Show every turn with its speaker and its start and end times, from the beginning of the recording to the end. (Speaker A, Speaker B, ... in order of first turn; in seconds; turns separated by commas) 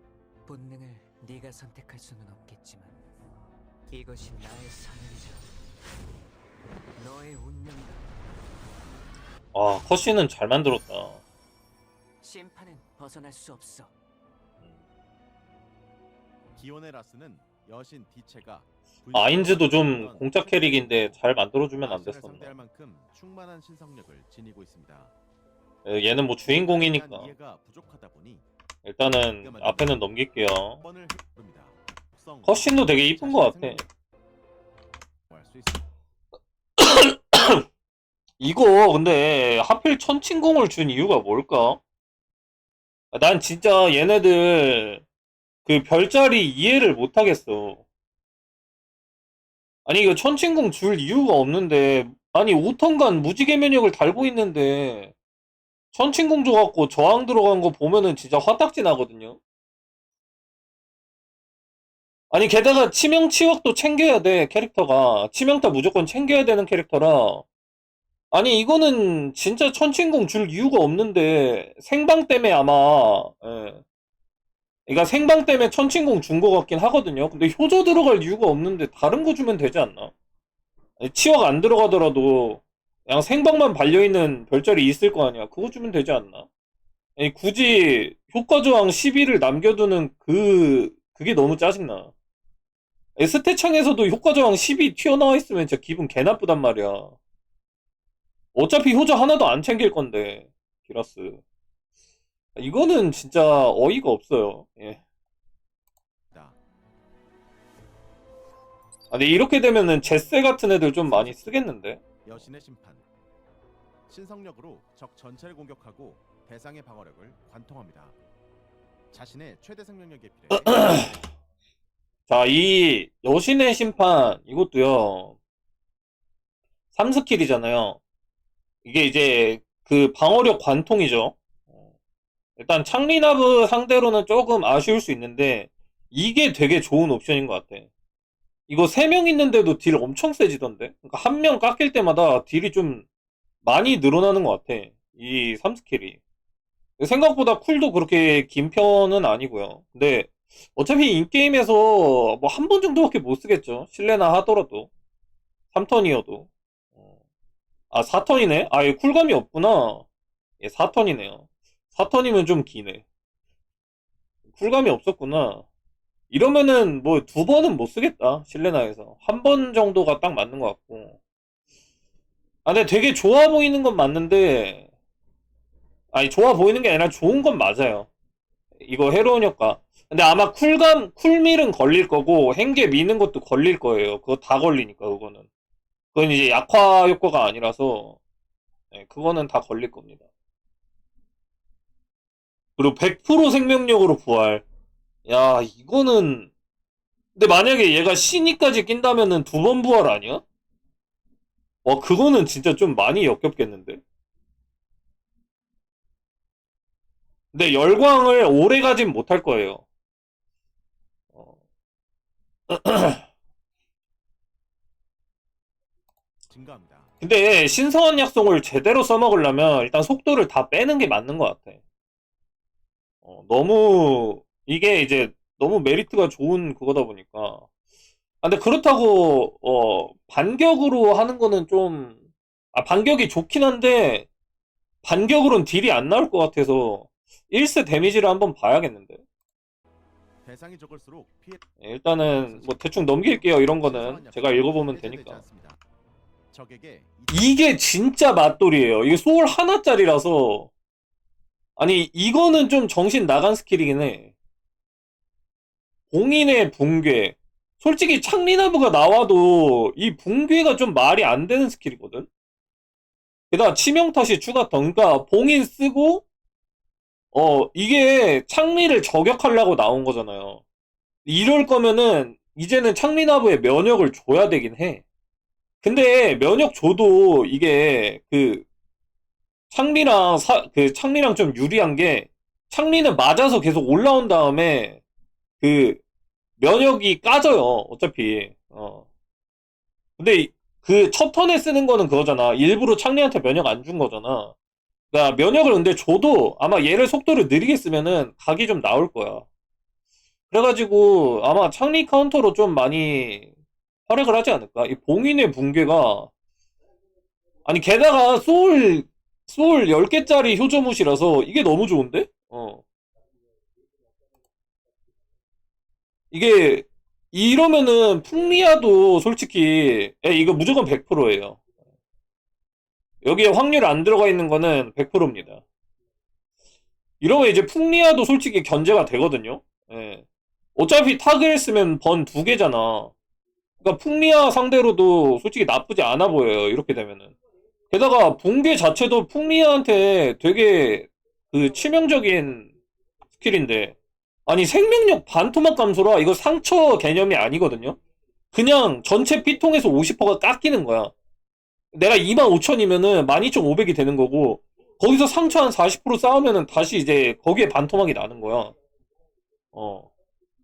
Speaker A: 0.4-3.0, Speaker A: 3.9-5.5, Speaker A: 6.9-8.1, Speaker B: 9.5-11.2, Speaker A: 12.2-13.9, Speaker C: 16.6-25.1, Speaker B: 19.1-22.6, Speaker B: 25.9-27.3, Speaker C: 26.4-28.4, Speaker B: 28.8-30.8, Speaker C: 29.4-30.0, Speaker C: 30.8-33.9, Speaker B: 32.4-33.8, Speaker C: 35.3-35.9, Speaker B: 36.8-37.6, Speaker B: 38.4-41.8, Speaker B: 43.1-45.0, Speaker B: 45.6-47.8, Speaker B: 49.9-55.1, Speaker B: 55.9-59.4, Speaker B: 62.3-67.4, Speaker B: 68.3-73.8, Speaker B: 74.9-80.1, Speaker B: 81.0-86.5, Speaker B: 87.2-92.1, Speaker B: 93.2-97.2, Speaker B: 98.5-101.4, Speaker B: 102.5-105.0, Speaker C: 106.3-106.6, Speaker B: 109.1-112.2, Speaker C: 111.0-111.7, Speaker C: 112.2-113.0, Speaker C: 114.1-118.2, Speaker C: 119.1-121.3, Speaker B: 120.5-121.2, Speaker B: 122.3-125.3, Speaker B: 126.9-128.0, Speaker B: 128.8-131.3, Speaker B: 132.6-137.9, Speaker B: 138.7-143.0, Speaker B: 143.6-146.2, Speaker B: 147.0-154.9, Speaker B: 155.7-156.5, Speaker B: 157.9-160.0, Speaker B: 160.6-163.0, Speaker B: 164.5-165.6, Speaker B: 166.3-171.2, Speaker B: 172.6-174.8, Speaker B: 176.1-178.1, Speaker B: 178.8-185.4, Speaker B: 186.1-188.2, Speaker B: 188.9-190.2, Speaker B: 192.8-194.6, Speaker B: 195.2-196.5, Speaker B: 197.3-200.4, Speaker B: 201.8-204.0, Speaker B: 207.5-209.8, Speaker B: 212.7-213.2, Speaker C: 216.5-217.1, Speaker B: 217.2-221.8, Speaker B: 223.2-227.6, Speaker B: 228.4-232.2, Speaker B: 232.7-234.3, Speaker B: 235.0-239.2, Speaker C: 240.4-241.6, Speaker B: 241.8-245.4, Speaker C: 242.4-245.8, Speaker C: 246.5-247.6, Speaker B: 247.3-250.7, Speaker B: 251.8-254.3, Speaker B: 256.1-262.3, Speaker B: 263.5-266.2, Speaker B: 267.3-270.6, Speaker B: 271.2-275.0, Speaker B: 275.8-278.6, Speaker B: 279.7-285.0, Speaker B: 285.6-286.0, Speaker B: 286.6-289.0, Speaker B: 290.2-294.5, Speaker B: 295.1-299.4, Speaker B: 300.5-303.5, Speaker B: 304.1-306.3, Speaker B: 307.6-312.8, Speaker B: 316.3-321.6, Speaker B: 323.2-325.6, Speaker B: 327.2-330.2, Speaker B: 330.8-333.1, Speaker B: 333.8-337.3, Speaker B: 337.9-342.7, Speaker B: 343.3-343.9, Speaker B: 344.5-348.0, Speaker B: 348.5-351.1, Speaker B: 351.9-358.7, Speaker B: 359.7-360.1